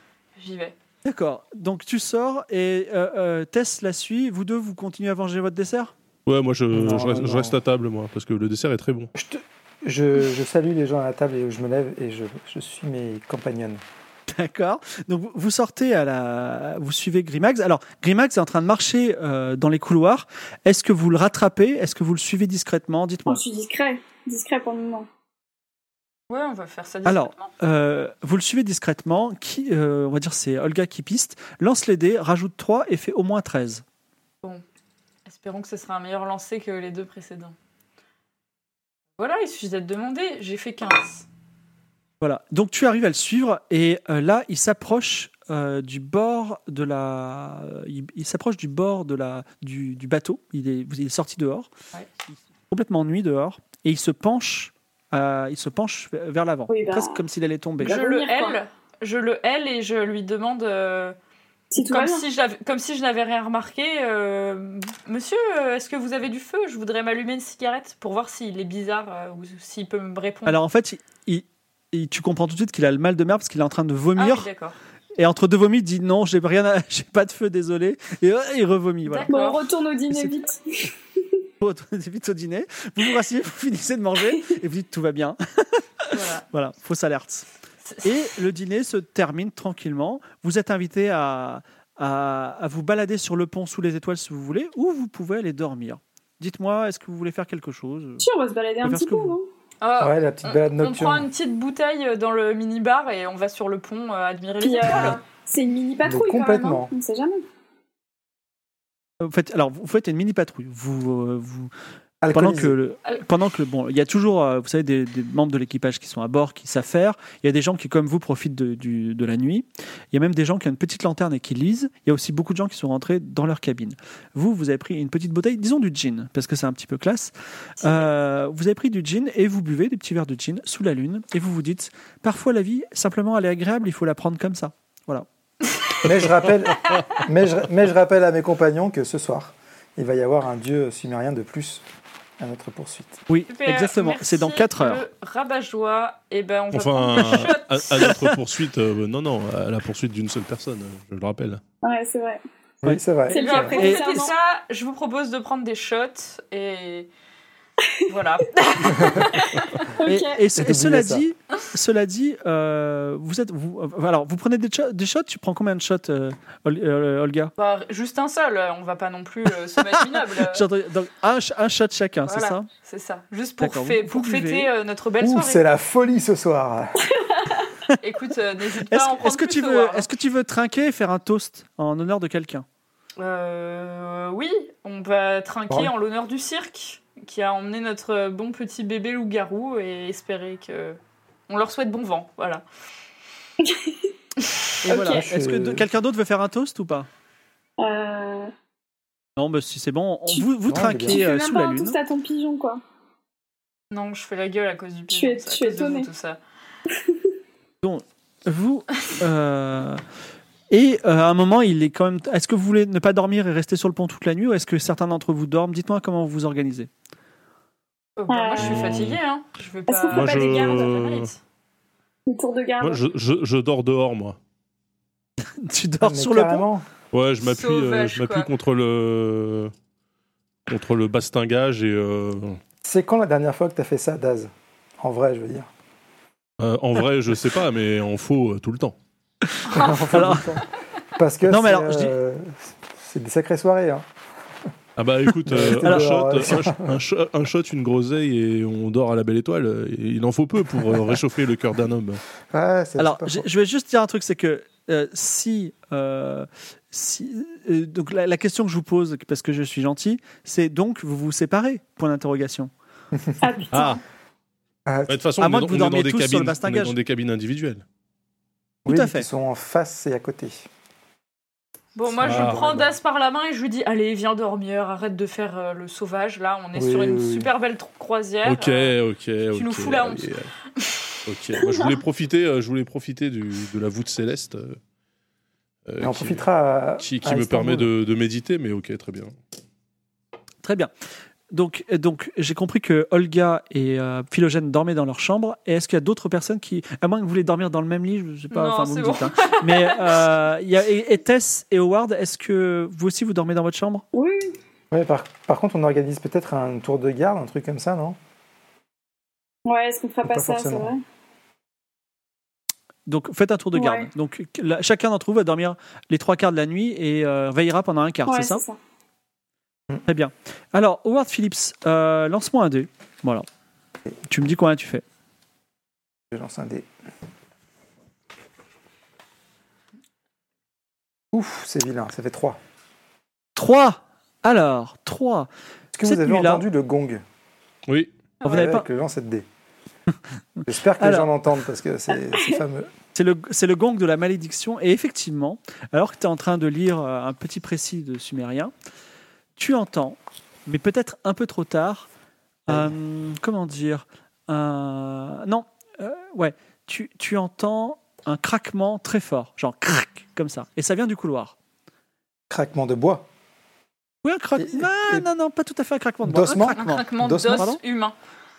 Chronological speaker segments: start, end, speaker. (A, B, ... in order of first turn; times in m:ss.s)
0:00.4-0:00.8 A
0:01.0-0:05.9 B
0:06.3-0:09.1 C
0:06.7-0:07.6 D
0:09.2-0:13.8 D
0:14.3-0:23.4 B
0:23.3-0:25.1 E
0:26.3-0:27.5 A
0:27.1-0:33.8 B
0:35.3-0:37.6 A
0:39.2-0:41.3 A
0:42.2-0:51.7 B
0:52.7-0:57.9 B
0:56.7-0:57.2 E
0:57.8-0:58.6 E
0:57.8-1:01.2 A
1:01.7-1:02.2 E
1:01.8-1:10.6 A
1:10.5-1:14.5 B
1:14.2-1:14.8 A
1:15.2-1:19.3 B
1:19.1-1:19.7 A
1:19.3-1:20.9 E
1:20.1-1:20.4 B
1:21.6-1:27.5 B
1:26.1-1:26.4 A
1:28.0-1:38.3 B
1:38.2-1:39.5 E
1:38.8-1:39.4 B
1:39.8-1:45.2 A
1:40.0-1:41.3 D
1:44.6-1:47.4 E
1:46.0-1:46.9 D
1:49.2-1:51.7 B
1:52.2-1:52.8 D
1:52.3-2:15.3 B
2:16.0-2:21.8 D
2:22.4-2:23.2 D
2:23.3-2:25.0 B
2:23.5-2:27.8 A
2:26.7-2:31.6 C
2:27.2-2:28.4 B
2:31.8-2:32.4 E
2:32.8-2:33.8 D
2:33.3-2:34.3 E
2:33.3-2:37.1 A
2:33.6-2:34.3 B
2:38.1-2:39.9 A
2:39.0-2:40.4 E
2:40.0-2:47.5 B
2:40.6-2:41.2 D
2:47.6-2:50.7 A
2:49.8-2:52.7 B
2:52.2-2:55.6 A
2:53.6-2:54.7 B
2:55.2-2:57.0 D
2:57.2-2:57.7 E
2:58.0-3:00.1 A
2:58.9-3:02.6 B
3:03.2-3:12.6 A
3:13.6-3:14.1 E
3:14.8-3:17.1 B
3:14.9-3:15.2 E
3:15.0-3:15.8 D
3:17.8-3:18.5 E
3:19.4-3:22.0 B
3:20.7-3:21.2 D
3:21.0-3:22.8 E
3:23.9-3:26.4 A
3:25.1-3:26.1 E
3:26.9-3:27.3 E
3:27.8-3:30.0 B
3:30.7-3:36.9 B
3:38.2-3:41.4 A
3:38.3-3:39.1 E
3:38.6-3:39.2 C
3:39.9-3:41.0 E
3:40.1-3:41.3 C
3:42.3-3:43.0 E
3:42.8-3:44.4 C
3:45.6-3:46.6 B
3:46.0-3:46.8 D
3:47.1-3:49.7 C
3:47.4-3:48.5 A
3:50.7-3:52.6 C
3:52.8-3:55.7 D
3:56.6-3:59.0 C
3:59.5-4:00.6 B
3:59.7-4:00.6 D
3:59.8-4:00.0 A
4:01.2-4:04.0 D
4:01.5-4:02.1 B
4:05.0-4:12.2 C
4:05.5-4:07.0 D
4:05.8-4:06.1 B
4:12.5-4:13.5 D
4:13.0-4:22.7 B
4:23.4-4:24.0 E
4:23.7-4:24.0 C
4:24.9-4:25.2 D
4:25.1-4:27.8 C
4:25.4-4:27.0 B
4:28.9-4:30.7 D
4:28.9-4:29.3 B
4:32.0-4:39.0 A
4:32.1-4:33.0 D
4:32.2-4:32.6 C
4:36.8-4:37.5 D
4:38.4-4:40.5 C
4:39.5-4:41.0 A
4:41.3-4:44.8 C
4:45.9-4:46.4 C
4:46.0-4:47.9 D
4:47.0-4:49.4 C
4:50.6-4:50.9 B
4:51.5-5:04.0 B
4:58.5-5:00.2 A
5:04.1-5:04.6 E
5:04.9-5:08.2 D
5:09.7-5:11.0 E
5:10.2-5:10.9 D
5:13.1-5:18.6 B
5:13.7-5:14.1 E
5:18.3-5:18.8 E
5:20.1-5:23.5 B
5:24.3-5:25.0 B
5:26.3-5:26.9 D
5:31.3-5:32.6 D
5:33.6-5:35.5 B
5:35.9-5:37.2 D
5:36.0-5:36.6 B
5:37.9-5:38.1 C
5:38.4-5:38.7 A
5:38.4-5:38.9 B
5:38.4-5:39.5 D
5:40.6-5:41.3 B
5:40.7-5:42.9 D
5:43.1-5:48.7 B
5:49.6-5:52.1 B
5:52.7-6:01.6 B
5:52.7-5:52.9 D
6:02.5-6:03.3 D
6:04.2-6:07.8 B
6:04.6-6:05.3 D
6:06.2-6:07.7 D
6:06.7-6:08.2 A